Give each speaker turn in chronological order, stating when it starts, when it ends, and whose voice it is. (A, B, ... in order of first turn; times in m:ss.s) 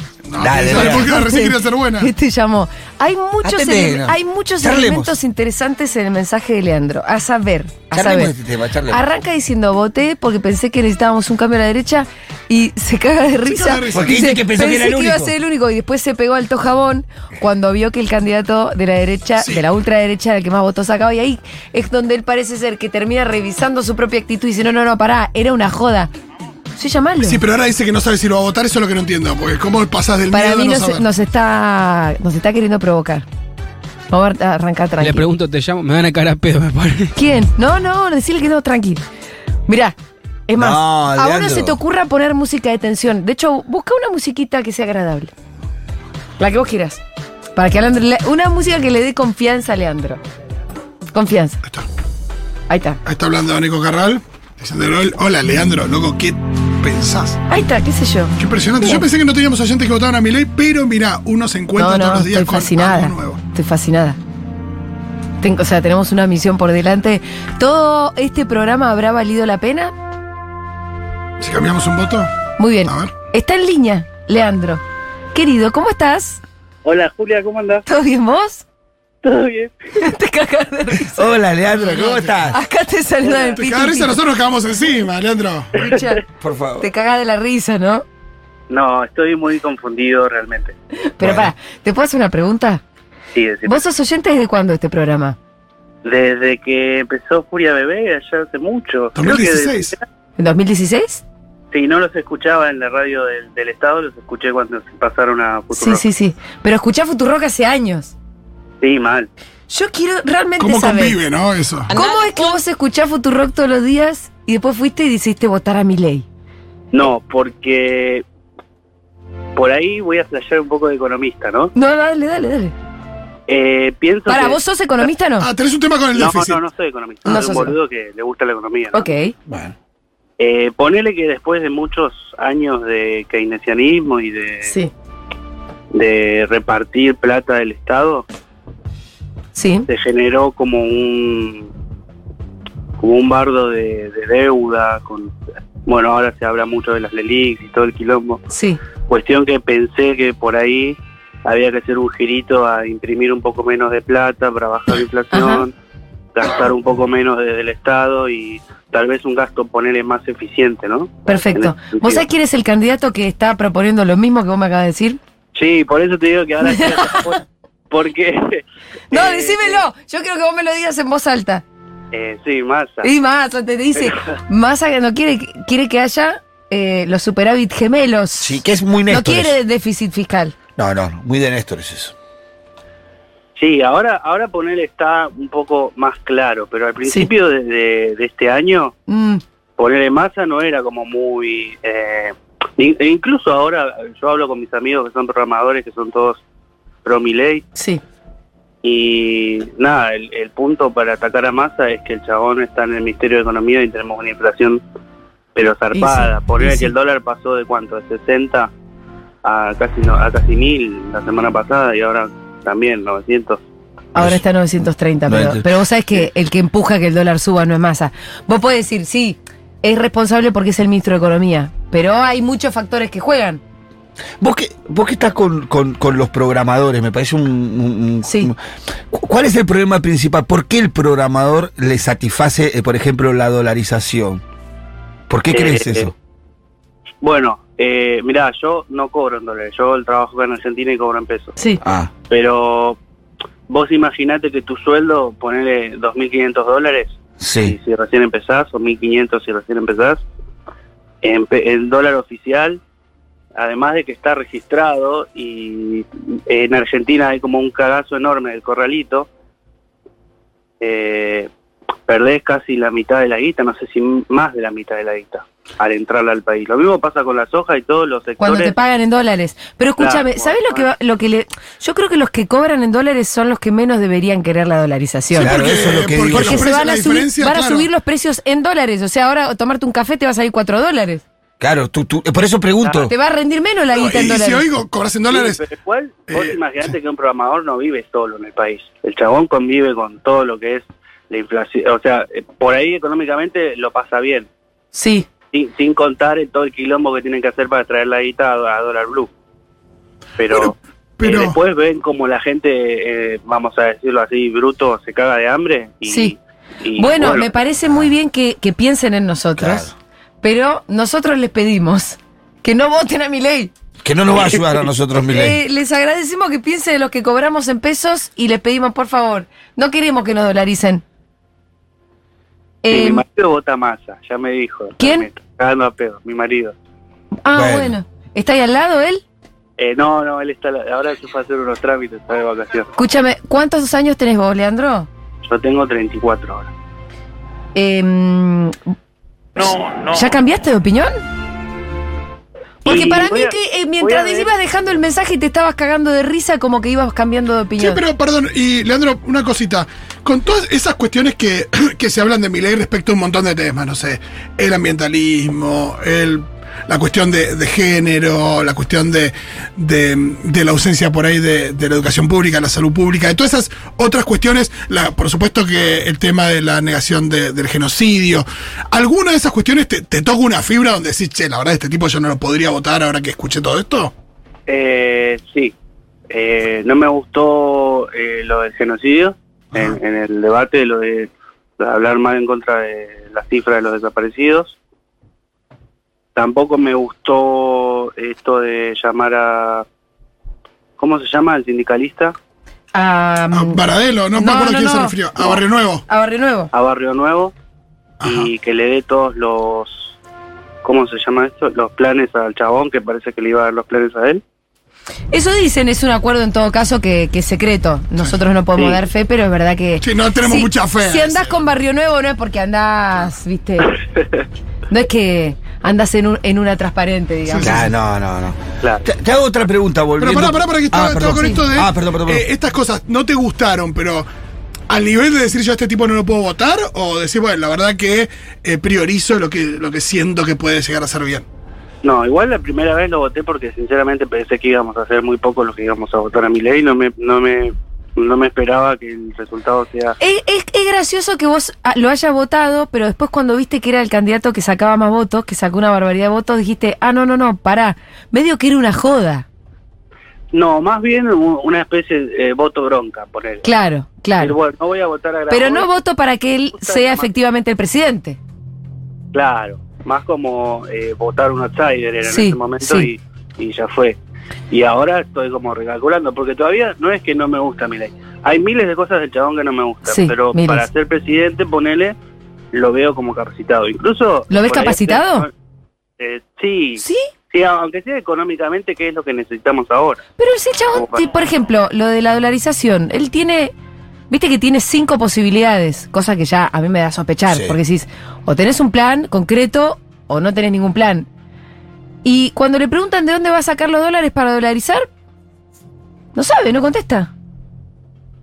0:00.3-0:02.1 A
0:00.4-0:01.1 B
0:00.6-0:08.3 C
0:03.4-0:05.2 B
0:07.9-0:09.0 B
0:08.9-0:26.1 C
0:13.4-0:14.3 A
0:13.9-0:15.3 B
0:19.4-0:19.6 A
0:26.8-0:27.4 C
0:27.2-0:31.0 A
0:30.3-0:33.2 C
0:34.1-0:35.2 C
0:35.0-0:37.1 D
0:37.1-0:39.0 C
0:39.7-0:39.9 C
0:40.5-0:45.3 C
0:40.6-0:41.8 B
0:46.4-0:47.0 C
0:47.6-0:50.2 C
0:51.1-0:51.6 C
0:52.7-0:53.0 C
0:53.0-0:57.4 A
0:57.5-0:59.0 C
0:58.4-1:03.4 A
1:01.8-1:04.2 C
1:05.4-1:09.9 C
1:11.4-1:12.3 A
1:12.6-1:14.8 C
1:12.8-1:13.1 A
1:15.3-1:16.4 C
1:16.8-1:17.8 E
1:17.8-1:18.6 C
1:19.2-1:19.7 E
1:20.0-1:21.3 C
1:21.1-1:22.6 B
1:21.8-1:22.3 A
1:22.5-1:24.2 C
1:23.2-1:23.5 E
1:23.5-1:25.9 A
1:25.8-1:26.2 C
1:26.4-1:26.9 B
1:26.8-1:28.0 C
1:28.7-1:30.7 E
1:31.2-1:32.8 C
1:31.2-1:31.5 B
1:33.3-1:33.8 E
1:33.6-1:35.4 C
1:36.0-1:40.0 E
1:39.2-1:39.9 A
1:40.4-1:41.2 C
1:41.7-1:46.0 E
1:45.7-1:48.1 C
1:48.8-1:49.3 E
1:49.7-1:51.2 C
1:50.6-1:51.9 A
1:51.9-1:56.2 C
1:51.9-1:52.2 E
1:56.9-1:58.2 E
1:59.6-2:01.7 E
2:01.7-2:02.7 C
2:03.5-2:04.6 E
2:04.3-2:05.5 C
2:05.4-2:06.6 A
2:06.1-2:09.1 E
2:07.2-2:07.7 C
2:08.9-2:09.3 C
2:09.5-2:09.7 B
2:10.4-2:14.7 E
2:14.6-2:14.9 C
2:15.9-2:18.2 E
2:19.5-2:19.9 C
2:19.9-2:21.7 E
2:23.0-2:25.3 E
2:25.8-2:28.4 E
2:28.5-2:28.8 C
2:29.1-2:35.7 E
2:35.3-2:35.6 C
2:36.3-2:42.2 E
2:41.3-2:45.2 C
2:45.5-2:49.8 E
2:46.7-2:47.2 C
2:49.1-2:51.6 C
2:52.1-2:53.1 E
2:53.0-3:00.5 C
2:58.4-2:59.5 B
3:00.8-3:02.1 B
3:03.6-3:09.0 E
3:09.1-3:09.4 C
3:09.8-3:16.4 E
3:17.0-3:17.6 E
3:17.8-3:18.0 C
3:18.8-3:24.8 E
3:25.5-3:28.7 E
3:25.9-3:26.9 C
3:29.4-3:33.6 E
3:34.1-3:34.4 B
3:34.1-3:43.6 C
3:35.3-3:35.7 B
3:44.4-3:48.5 B
3:48.2-3:48.5 C
3:49.1-3:54.4 B
3:55.3-3:56.1 B
3:55.5-3:56.1 E
3:57.2-4:01.6 E
4:01.8-4:02.1 B
4:02.3-4:03.0 E
4:03.7-4:10.2 E
4:07.4-4:07.8 B
4:11.2-4:12.8 E
4:13.6-4:19.3 E
4:20.8-4:21.5 E
4:22.1-4:28.7 E
4:28.4-4:35.6 C
4:30.0-4:30.9 E
4:35.3-4:37.9 A
4:35.4-4:36.7 B
4:36.2-4:41.2 C
4:41.6-4:43.1 B
4:43.0-4:44.6 C
4:43.9-4:45.6 A
4:45.3-4:54.5 E
4:46.3-4:46.9 A
4:54.9-4:55.3 C
4:55.5-4:59.3 E
5:00.4-5:07.5 E
5:00.5-5:01.6 A
5:06.1-5:06.3 C
5:07.0-5:09.9 C
5:09.6-5:09.9 B
5:10.4-5:13.7 C
5:14.0-5:15.6 B
5:15.2-5:21.0 C
5:22.8-5:23.2 C
5:22.9-5:26.7 E
5:25.0-5:25.2 C
5:27.4-5:29.2 C
5:27.5-5:27.9 B
5:29.8-5:32.9 E
5:33.0-5:35.1 C
5:35.4-5:36.7 E
5:37.7-5:38.8 C
5:39.6-5:41.1 C
5:42.8-5:44.5 E
5:42.8-5:48.0 C
5:47.8-6:14.1 A
6:14.7-6:15.7 E
6:16.3-6:24.8 E
6:26.3-6:29.8 E
6:31.0-6:32.3 E
6:32.9-6:33.8 C
6:33.5-6:36.0 A
6:34.3-6:36.7 C
6:36.7-6:37.5 E
6:38.2-6:38.5 A
6:38.2-6:40.1 E
6:40.8-6:44.4 E
6:45.3-6:54.0 C
6:50.0-6:51.6 A
6:54.9-6:57.8 C
6:57.5-6:57.8 A
6:57.6-7:02.4 B
6:58.8-6:59.1 E
7:00.2-7:04.3 A
7:01.3-7:01.6 C
7:04.9-7:11.4 A
7:12.0-7:20.2 E
7:20.2-7:29.4 C
7:30.5-7:33.7 E
7:33.6-7:34.5 C
7:34.4-7:35.9 E
7:35.5-7:38.4 C
7:36.8-7:37.3 E
7:39.3-7:44.2 E
7:42.2-7:43.1 C
7:44.7-7:52.1 E
7:50.0-7:50.8 C
7:52.7-7:55.5 E
7:54.5-7:55.5 C
7:56.2-8:00.2 E
7:57.0-7:57.3 C
8:00.4-8:03.7 C
8:00.9-8:01.2 E
8:04.3-8:11.3 C
8:07.5-8:07.8 B
8:12.2-8:15.1 C
8:16.3-8:17.3 C